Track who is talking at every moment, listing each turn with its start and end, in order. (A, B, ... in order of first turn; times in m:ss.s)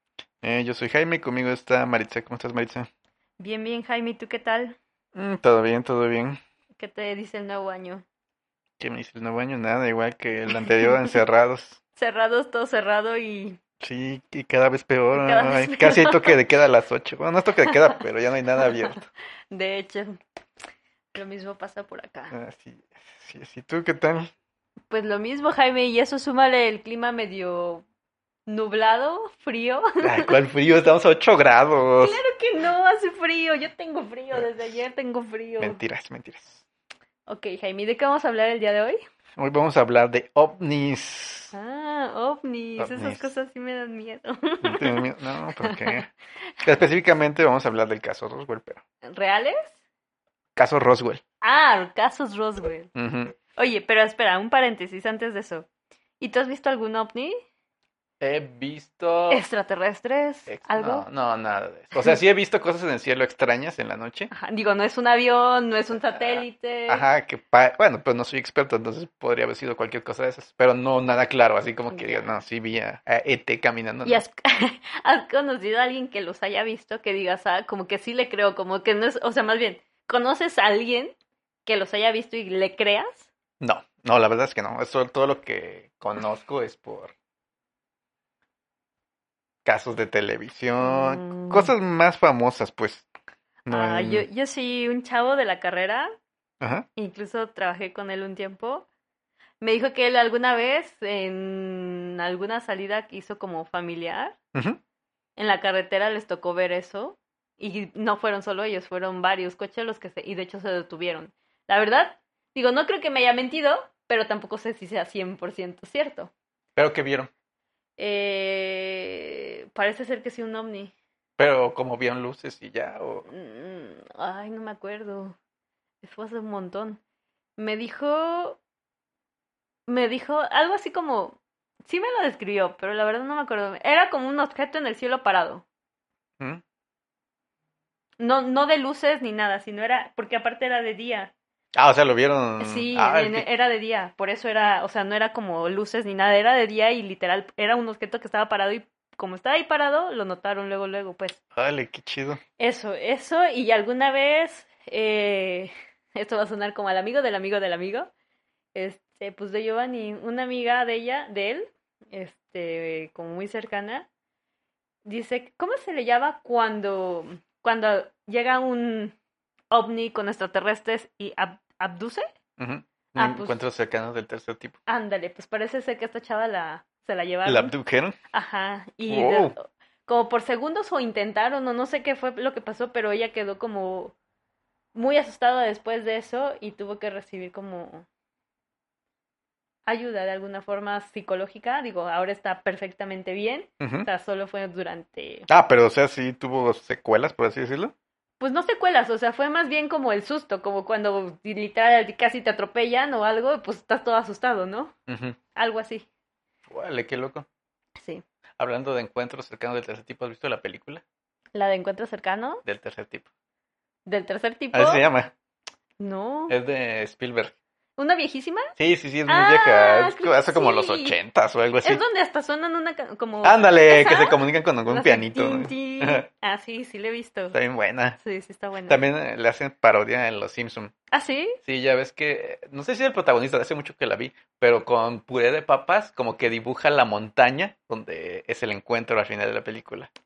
0:00.4-0:02.9 A
0:03.4-0:04.8 B
0:05.1-0:06.4 A
0:06.8-0:08.0 B
0:08.8-0:11.8 A
0:10.5-0:11.1 B
0:12.0-0:13.6 B
0:13.8-0:19.0 A
0:15.1-0:16.4 B
0:17.7-0:18.0 B
0:18.6-0:19.0 B
0:19.5-0:20.2 B
0:21.1-0:22.3 B
0:22.3-0:24.3 A
0:24.9-0:27.8 B
0:28.5-0:30.3 B
0:30.0-0:32.2 A
0:32.0-0:35.8 B
0:35.6-0:36.6 A
0:37.3-0:39.0 B
0:39.4-0:41.5 A
0:41.5-0:45.1 B
0:42.8-0:43.3 A
0:44.6-0:46.1 A
0:45.6-0:46.0 B
0:46.6-0:48.8 A
0:49.0-0:49.7 B
0:50.6-0:51.2 A
0:51.4-0:52.9 B
0:52.9-0:53.3 A
0:53.6-0:55.7 B
0:56.2-0:57.4 B
0:58.2-0:59.4 A
0:59.3-1:01.1 B
1:00.5-1:04.3 A
1:04.3-1:07.0 B
1:05.9-1:14.2 A
1:11.9-1:12.3 B
1:14.0-1:21.1 B
1:21.6-1:23.3 B
1:23.6-1:27.1 A
1:29.6-1:33.1 A
1:30.8-1:31.7 B
1:33.6-1:34.2 A
1:33.7-1:36.1 B
1:36.6-1:36.8 A
1:37.0-1:38.8 B
1:39.6-1:44.4 B
1:44.5-1:44.8 A
1:45.4-1:56.3 B
1:56.8-1:57.3 A
1:58.0-2:00.9 B
2:01.4-2:03.2 A
2:03.3-2:05.4 B
2:06.0-2:07.0 B
2:07.6-2:08.6 B
2:09.9-2:15.6 B
2:18.2-2:21.3 B
2:21.7-2:23.4 A
2:22.6-2:31.4 B
2:31.5-2:32.4 A
2:32.6-2:38.1 B
2:38.7-2:44.1 B
2:45.0-2:49.1 B
2:49.7-2:52.3 B
2:52.6-2:54.8 A
2:53.2-2:53.6 B
2:54.9-2:57.7 B
2:57.4-2:58.2 A
2:58.3-3:04.1 B
2:59.1-2:59.5 A
3:04.9-3:08.0 B
3:09.8-3:15.5 B
3:13.8-3:14.1 A
3:15.5-3:17.9 A
3:18.4-3:24.9 B
3:25.1-3:25.4 A
3:25.6-3:26.0 B
3:26.7-3:27.4 A
3:28.0-3:28.2 B
3:28.6-3:31.0 A
3:31.5-3:32.6 B
3:32.6-3:33.2 A
3:34.0-3:35.0 B
3:34.7-3:35.3 A
3:36.0-3:36.6 B
3:36.5-3:37.5 A
3:38.0-3:38.7 B
3:38.8-3:42.0 A
3:39.3-3:41.2 B
3:41.8-3:47.6 B
3:43.4-3:46.3 A
3:47.5-3:48.2 A
3:48.2-3:49.0 B
3:48.9-3:50.9 A
3:51.1-3:51.6 B
3:51.6-4:00.1 A